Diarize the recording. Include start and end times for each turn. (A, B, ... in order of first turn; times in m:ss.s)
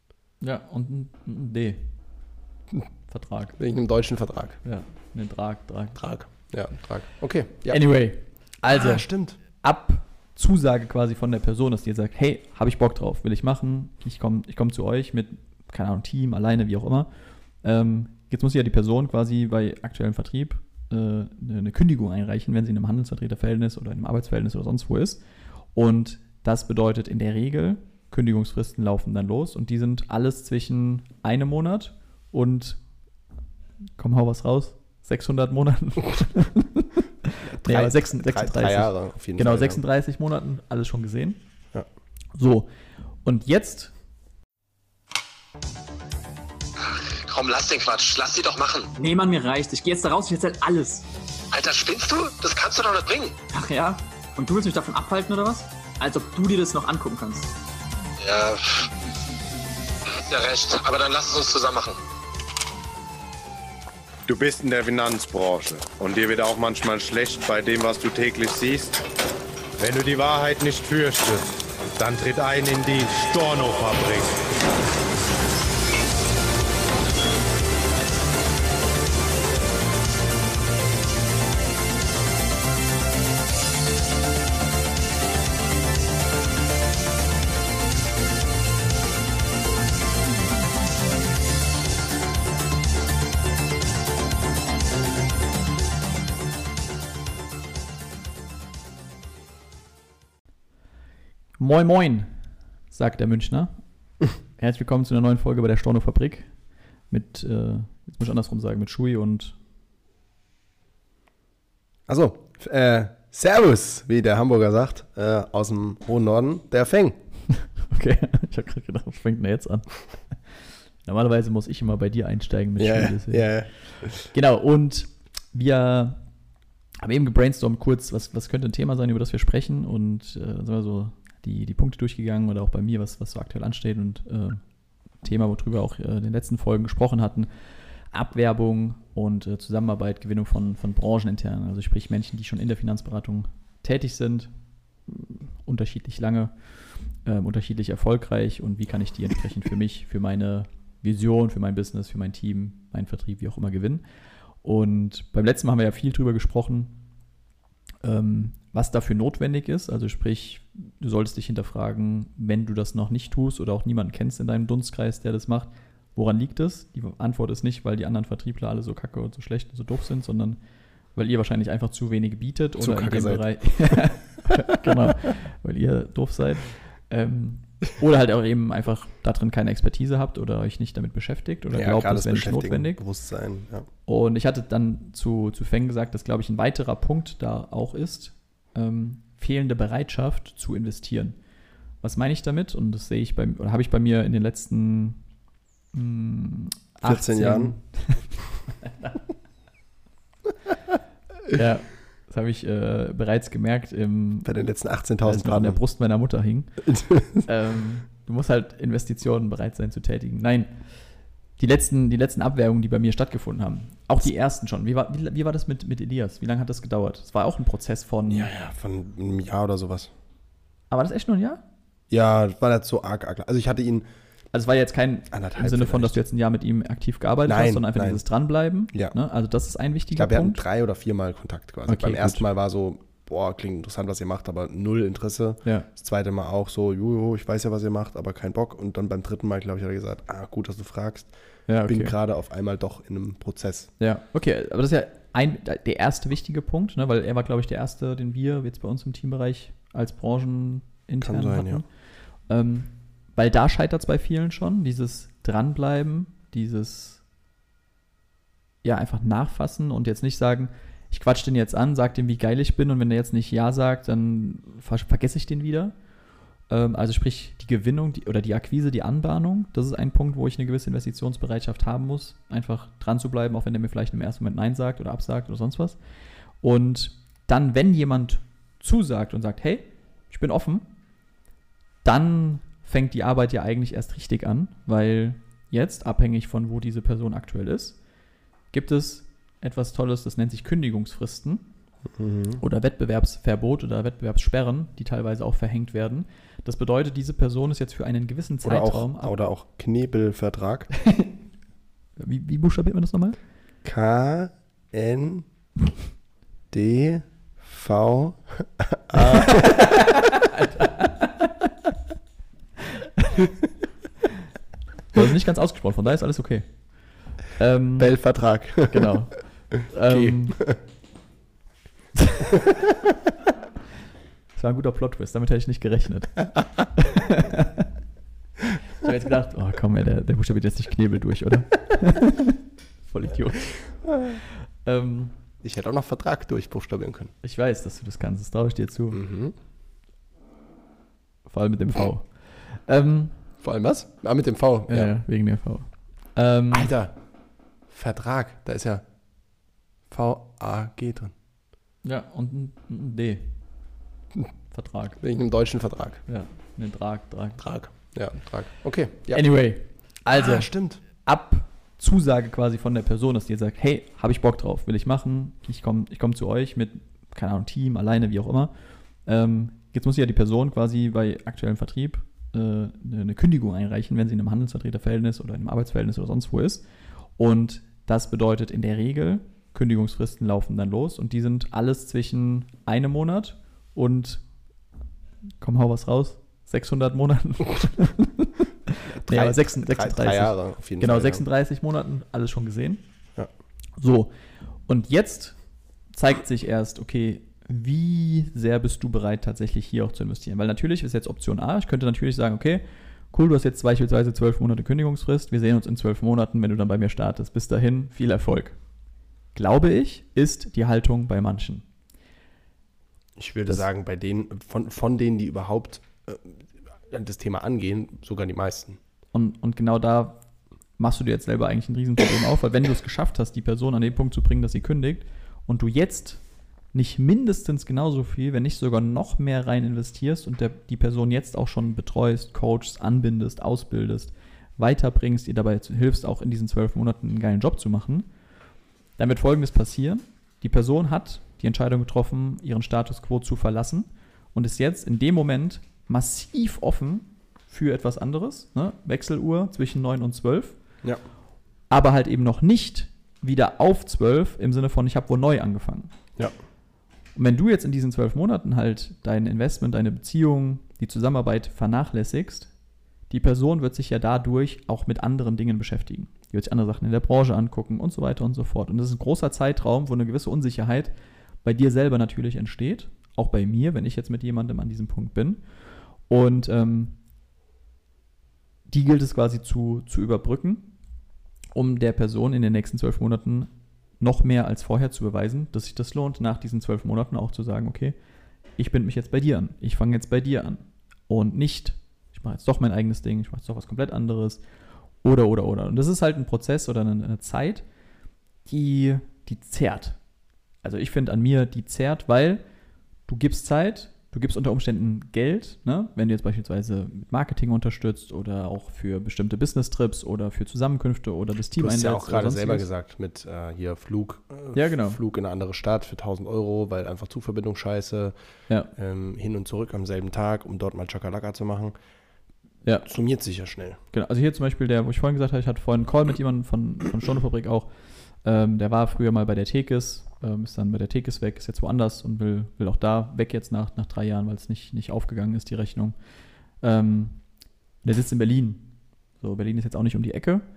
0:00.4-0:01.9 A
0:03.1-0:03.6 A
0:03.6-0:04.6 B
0:04.6-0:06.0 A
0:06.0-0:07.8 B
0:07.7-0:09.0 A
0:08.7-0:09.4 B
0:09.6-0:17.1 A
0:17.6-0:25.2 A
0:25.7-0:32.8 A
0:34.0-0:41.4 A
0:37.5-0:39.8 B
0:42.3-0:42.7 A
0:43.2-0:43.9 A
0:46.8-0:48.9 C
0:49.0-0:51.0 D
0:51.5-0:53.4 C
0:53.5-0:57.5 D
0:58.2-0:58.9 C
1:00.3-1:02.0 C
1:04.3-1:09.0 E
1:09.8-1:14.4 E
1:41.6-1:42.3 A
1:42.9-1:43.8 A
1:44.6-1:46.5 A
1:47.1-1:49.6 A
1:52.1-1:57.2 B
1:57.6-2:00.0 A
2:01.0-2:03.5 A
2:02.8-2:04.2 B
2:04.1-2:06.2 A
2:07.0-2:14.6 A
2:15.2-2:17.5 A
2:18.1-2:24.5 A
2:25.1-2:26.5 A
2:27.2-2:34.0 A
2:34.6-2:37.0 A
2:38.0-2:50.6 A
2:51.1-3:03.0 A
2:52.8-2:55.1 B
3:01.7-3:03.9 B
3:04.1-3:11.4 A
3:12.0-3:15.2 A
3:15.9-3:19.2 A
3:17.0-3:17.8 B
3:21.5-3:24.5 A
3:24.4-3:25.8 B
3:25.2-3:26.8 A
3:26.8-3:27.5 B
3:27.4-3:30.7 A
3:31.6-3:38.5 A
3:38.3-3:40.1 B
3:40.9-3:41.6 A
3:42.1-3:44.1 B
3:44.5-3:50.6 A
3:45.3-3:46.2 B
3:47.4-3:48.2 B
3:50.1-4:01.3 B
3:51.9-3:52.4 A
4:01.7-4:02.2 A
4:01.8-4:03.9 B
4:04.0-4:11.8 A
4:11.2-4:11.8 B
4:12.5-4:17.2 A
4:18.8-4:25.9 A
4:26.7-4:36.0 A
4:36.6-4:40.9 A
4:42.0-4:48.0 A
4:48.7-4:51.7 A
4:52.1-4:52.6 B
4:52.6-4:59.3 A
4:58.6-5:00.9 B
5:01.0-5:01.3 A
5:02.2-5:03.4 A
5:03.8-5:05.5 B
5:06.7-5:09.9 B
5:09.1-5:11.5 A
5:12.9-5:13.5 A
5:15.1-5:16.7 A
5:17.5-5:18.2 A
5:18.0-5:19.2 B
5:18.9-5:20.6 A
5:20.1-5:20.8 B
5:22.2-5:22.5 A
5:22.5-5:23.0 B
5:24.6-5:26.4 A
5:27.0-5:27.9 A
5:28.9-5:33.7 A
5:34.8-5:35.4 A
5:35.6-5:37.3 B
5:37.4-5:39.2 A
5:39.1-5:39.6 B
5:41.5-5:43.3 A
5:43.6-5:45.2 B
5:44.9-5:46.9 A
5:46.7-5:47.2 B
5:47.9-5:49.0 B
5:50.1-5:51.3 B
5:52.0-5:53.5 A
5:54.7-5:55.2 A
5:55.2-5:56.2 B
5:56.3-5:57.6 A
5:57.6-5:59.5 B
5:59.3-6:08.7 A
6:00.3-6:01.0 B
6:09.2-6:16.8 A
6:17.4-6:24.4 A
6:25.6-6:33.0 A
6:29.1-6:31.4 B
6:34.0-6:34.3 A
6:34.9-6:35.6 A
6:36.1-6:48.8 A
6:49.6-6:51.8 A
6:53.4-6:59.0 B
6:59.3-7:00.4 A
7:01.0-7:06.4 A
7:06.9-7:18.3 A
7:19.2-7:30.8 A
7:31.9-7:36.1 A
7:37.4-7:42.7 A
7:43.3-7:51.1 A
7:51.6-7:55.6 A
7:56.3-7:57.2 A
7:58.9-8:00.9 A
8:01.7-8:08.2 A
8:08.8-8:14.6 A
8:15.2-8:17.8 A
8:18.6-8:20.2 A
8:20.8-8:22.6 A
8:23.3-8:32.9 A
8:31.8-8:38.3 B
8:34.7-8:35.2 A
8:39.0-8:42.0 B
8:43.0-8:44.0 B
8:44.1-8:47.9 A
8:48.4-8:56.2 A
8:56.8-8:57.4 A
8:58.0-8:58.9 A
8:59.4-9:00.6 A